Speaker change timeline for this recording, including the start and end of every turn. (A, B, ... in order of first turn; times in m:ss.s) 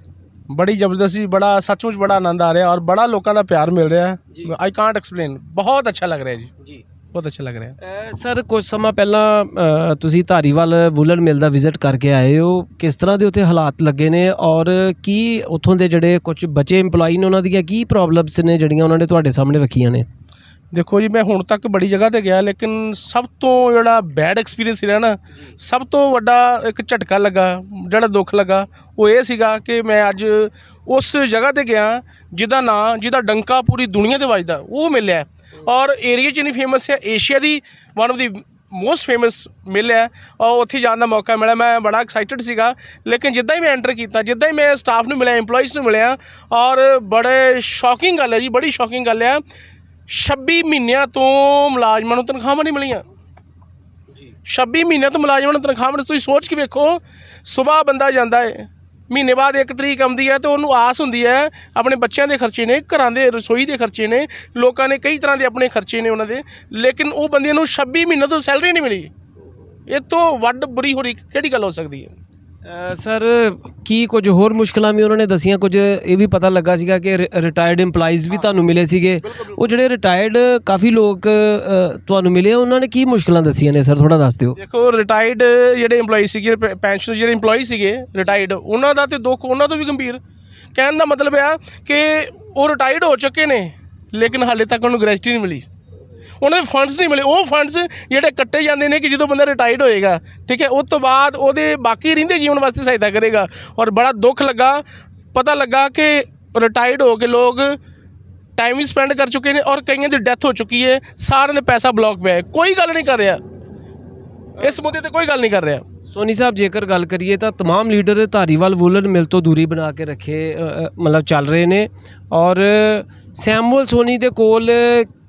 0:00.5-0:06.5 A
0:07.1-0:07.8 A
0:07.8-0:20.0 B
0:20.7-0:49.4 A
0:50.1-0:53.0 A
0:54.4-1:09.1 A
1:09.9-1:12.1 A
1:12.6-1:24.6 B
1:19.2-1:19.6 A
1:24.6-1:30.2 A
1:30.7-1:35.7 A
1:36.4-1:47.8 A
1:48.6-1:53.4 A
1:54.6-1:55.8 A
1:56.1-2:05.1 B